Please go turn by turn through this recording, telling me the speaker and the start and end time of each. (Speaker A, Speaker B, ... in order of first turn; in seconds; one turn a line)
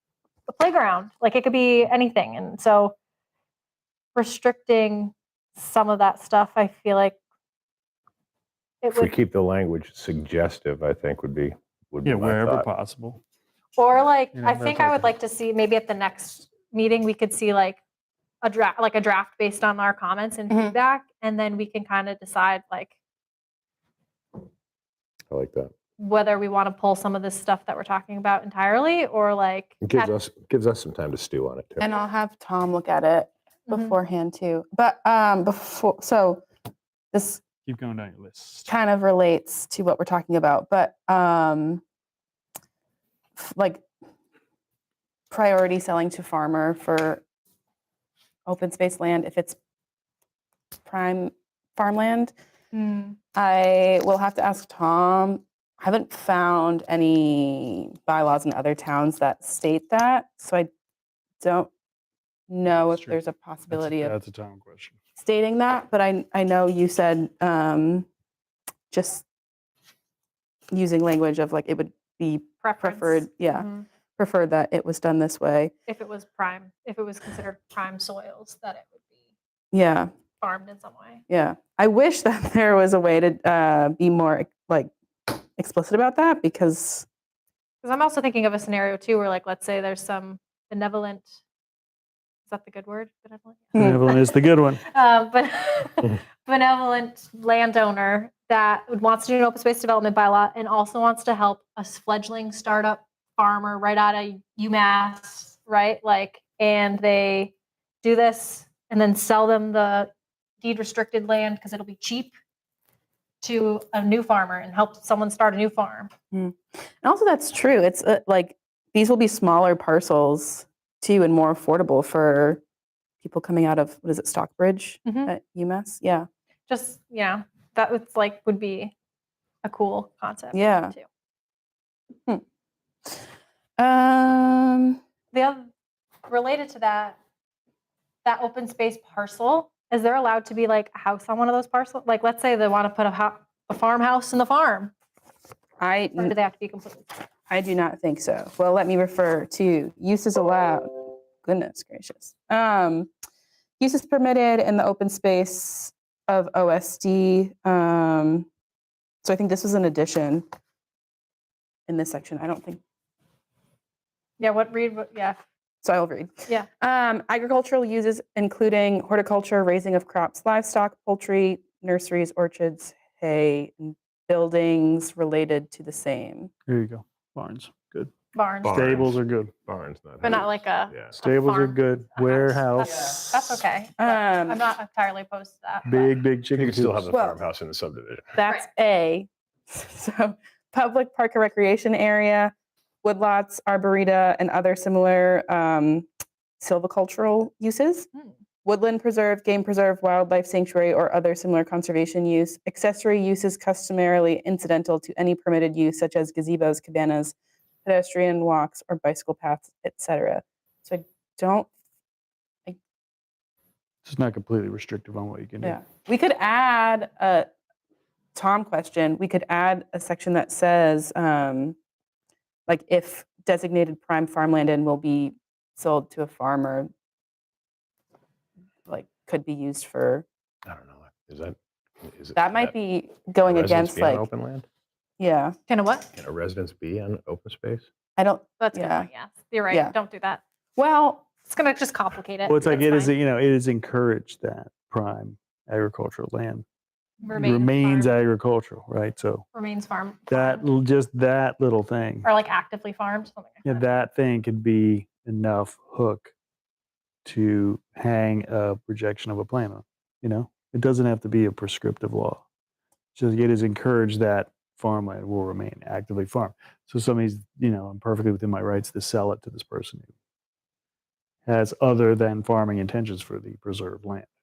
Speaker A: 0.5-2.9
Speaker A: 4.1-7.2
Speaker A: 8.8-9.1
Speaker B: 8.9-12.7
Speaker C: 12.0-13.2
Speaker A: 13.8-17.8
Speaker C: 14.3-15.1
Speaker A: 18.4-22.9
Speaker D: 20.5-20.7
Speaker B: 25.3-25.7
Speaker A: 26.0-30.1
Speaker B: 29.8-31.9
Speaker D: 31.8-36.5
Speaker A: 33.7-34.0
Speaker D: 37.1-37.4
Speaker C: 37.6-38.7
Speaker D: 38.7-41.8
Speaker D: 43.4-43.8
Speaker D: 45.3-47.2
Speaker D: 48.5-49.6
Speaker D: 50.9-52.3
Speaker A: 52.7-53.2
Speaker D: 53.3-60.7
Speaker D: 61.4-61.7
Speaker D: 62.5-64.1
Speaker C: 62.8-63.1
Speaker C: 63.7-65.0
Speaker D: 65.2-68.1
Speaker D: 68.9-69.2
Speaker D: 70.7-75.7
Speaker A: 72.6-73.9
Speaker A: 75.9-79.1
Speaker D: 79.7-80.1
Speaker A: 80.4-81.2
Speaker D: 81.3-87.0
Speaker A: 87.8-91.4
Speaker A: 92.5-112.3
Speaker D: 93.8-94.0
Speaker C: 93.8-94.8
Speaker A: 113.4-116.1
Speaker D: 116.3-122.6
Speaker D: 123.2-126.2
Speaker A: 125.0-125.3
Speaker A: 126.7-128.9
Speaker A: 129.6-131.0
Speaker D: 130.5-130.9
Speaker D: 133.8-135.0
Speaker A: 135.3-135.7
Speaker A: 136.3-137.2
Speaker A: 138.2-144.9
Speaker D: 145.8-146.3
Speaker A: 146.2-147.1
Speaker D: 147.5-153.1
Speaker D: 153.8-158.5
Speaker D: 159.2-160.4
Speaker D: 161.9-162.8
Speaker A: 164.4-165.4
Speaker D: 165.8-176.5
Speaker C: 176.7-178.1
Speaker A: 178.3-178.8
Speaker B: 178.6-181.2
Speaker C: 178.7-179.5
Speaker A: 180.2-186.1
Speaker C: 181.2-183.6
Speaker D: 184.0-184.6
Speaker C: 185.8-187.1
Speaker B: 186.5-188.3
Speaker D: 187.1-187.4
Speaker D: 188.3-192.5
Speaker D: 193.0-196.1
Speaker D: 196.6-198.1
Speaker D: 198.6-207.3
Speaker D: 207.8-211.7
Speaker C: 214.0-215.8
Speaker D: 215.6-217.4
Speaker D: 218.3-221.8
Speaker D: 222.7-226.9
Speaker D: 228.9-230.2
Speaker B: 230.7-232.7
Speaker D: 232.3-234.3
Speaker B: 233.4-234.7
Speaker D: 235.2-235.5
Speaker A: 235.7-236.1
Speaker B: 236.1-237.8
Speaker D: 238.2-239.1
Speaker A: 238.6-240.4
Speaker D: 240.8-241.2
Speaker A: 241.5-243.2
Speaker C: 242.5-246.6
Speaker A: 247.2-248.1
Speaker C: 247.3-249.4
Speaker A: 249.5-250.7
Speaker C: 250.3-252.3
Speaker A: 252.2-253.8
Speaker C: 253.6-256.3
Speaker C: 257.2-262.4
Speaker C: 263.1-270.1
Speaker C: 271.4-274.3